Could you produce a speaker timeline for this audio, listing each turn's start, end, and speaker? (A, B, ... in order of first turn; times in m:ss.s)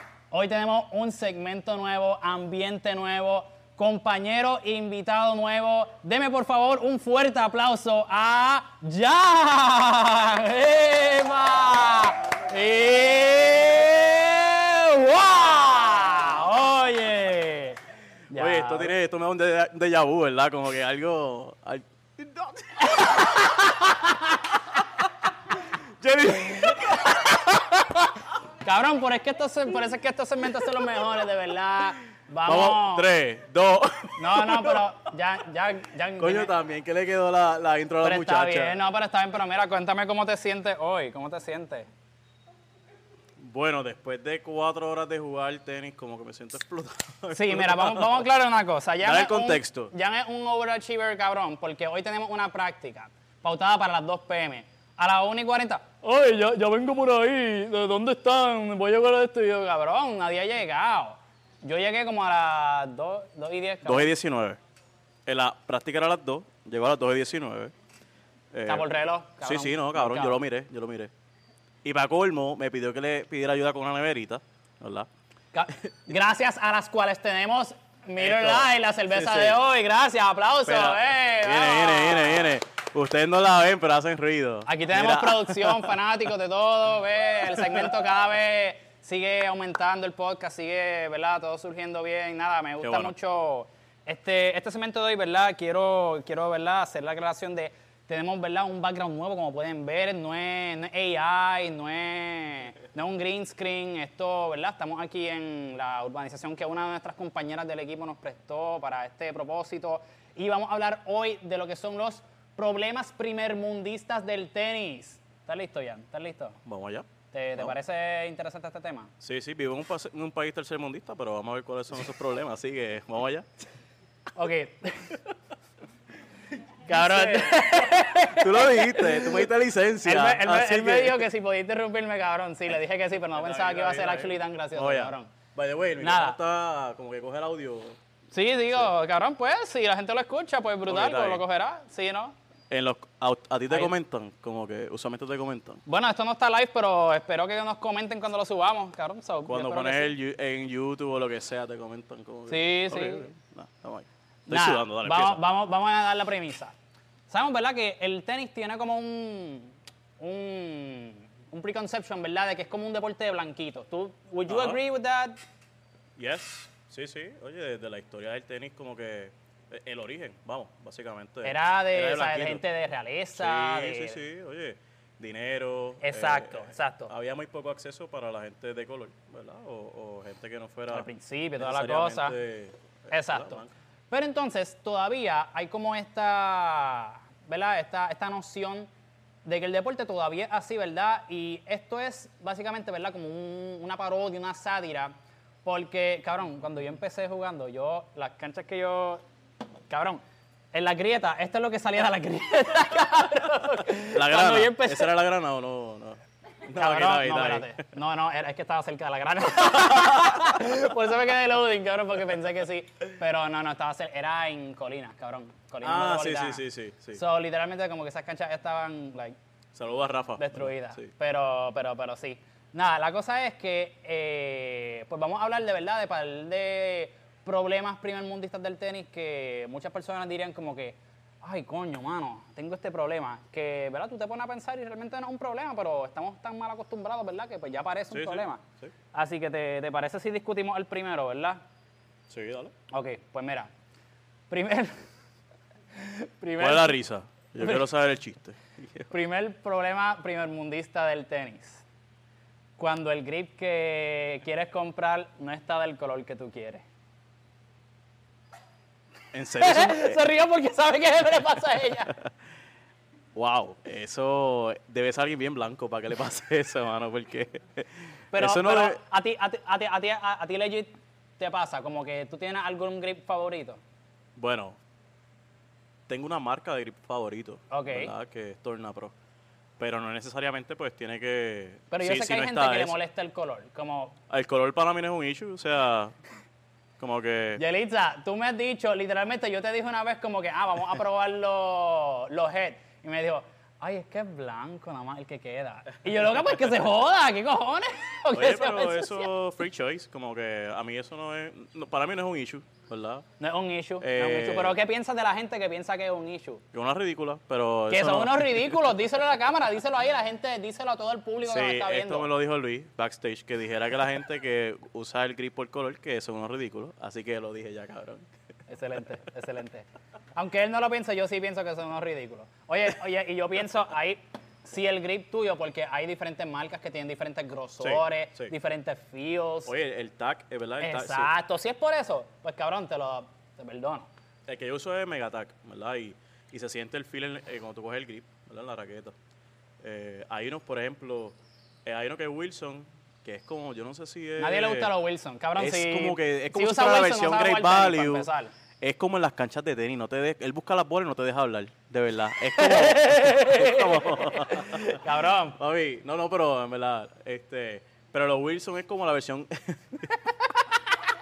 0:00.3-0:18.9 A
0:18.3-0:23.3 B
0:22.8-0:24.6 A
0:25.8-0:27.5 B
0:26.5-0:28.0 A
0:28.6-0:33.1 A
0:32.4-0:34.8 B
0:34.2-0:36.5 A
0:36.2-0:38.8 B
0:38.0-0:41.9 A
0:43.4-0:48.2 B
0:47.3-1:04.1 A
0:49.0-0:49.9 B
1:03.8-1:04.6 B
1:05.2-1:07.7 B
1:08.5-1:11.1 B
1:08.6-1:10.4 A
1:11.8-1:15.1 B
1:15.5-1:22.6 A
1:18.2-1:19.6 B
1:20.6-1:26.0 B
1:24.6-1:56.6 A
1:32.8-1:33.1 B
1:56.6-1:57.7 B
1:57.3-1:59.1 A
1:59.2-2:03.4 B
2:04.4-2:05.2 A
2:06.8-2:09.5 A
2:06.9-2:11.2 B
2:10.0-2:15.3 A
2:13.3-2:18.0 B
2:16.0-2:16.4 A
2:18.3-2:22.3 A
2:20.8-2:21.4 B
2:22.7-2:25.8 B
2:25.8-2:30.1 A
2:29.4-2:35.4 B
2:32.5-2:33.3 A
2:34.5-2:36.7 A
2:37.3-2:45.4 A
2:44.5-2:44.8 B
2:46.2-2:52.6 B
2:51.4-2:54.2 A
2:53.3-3:03.7 B
2:56.0-2:57.1 A
3:00.9-3:02.4 A
3:03.1-3:08.9 A
3:09.4-3:15.1 A
3:15.6-3:19.2 A
3:19.9-3:20.2 A
3:20.7-3:25.1 A
3:24.0-3:27.7 B
3:26.7-3:36.6 A
3:35.8-3:37.2 B
3:37.1-3:39.3 A
3:39.7-3:41.1 B
3:40.4-3:58.6 A
3:58.1-3:58.9 B
3:59.1-4:01.6 A
4:02.3-4:02.7 B
4:02.9-4:03.7 A
4:04.5-4:04.9 A
4:05.9-4:07.0 A
4:06.6-4:09.1 B
4:09.1-4:11.8 A
4:12.8-4:16.8 A
4:19.3-4:20.2 B
4:19.6-4:22.2 A
4:23.3-4:29.0 B
4:28.3-4:33.8 A
4:34.4-4:34.8 B
4:36.1-4:39.1 B
4:37.7-4:38.1 A
4:39.8-4:43.0 B
4:41.9-4:44.2 A
4:44.3-4:46.2 B
4:47.0-4:47.6 B
4:47.6-4:59.3 A
4:58.3-5:03.2 B
5:03.4-5:06.6 A
5:04.0-5:04.8 B
5:06.7-5:08.8 B
5:07.9-5:12.3 A
5:11.4-5:18.3 B
5:18.7-5:29.7 A
5:27.8-5:28.5 B
5:29.6-5:31.3 B
5:30.8-5:34.1 A
5:34.5-5:39.1 B
5:39.8-5:44.9 B
5:44.4-5:48.5 A
5:45.6-5:48.3 B
5:48.8-6:00.3 B
5:52.6-5:55.6 A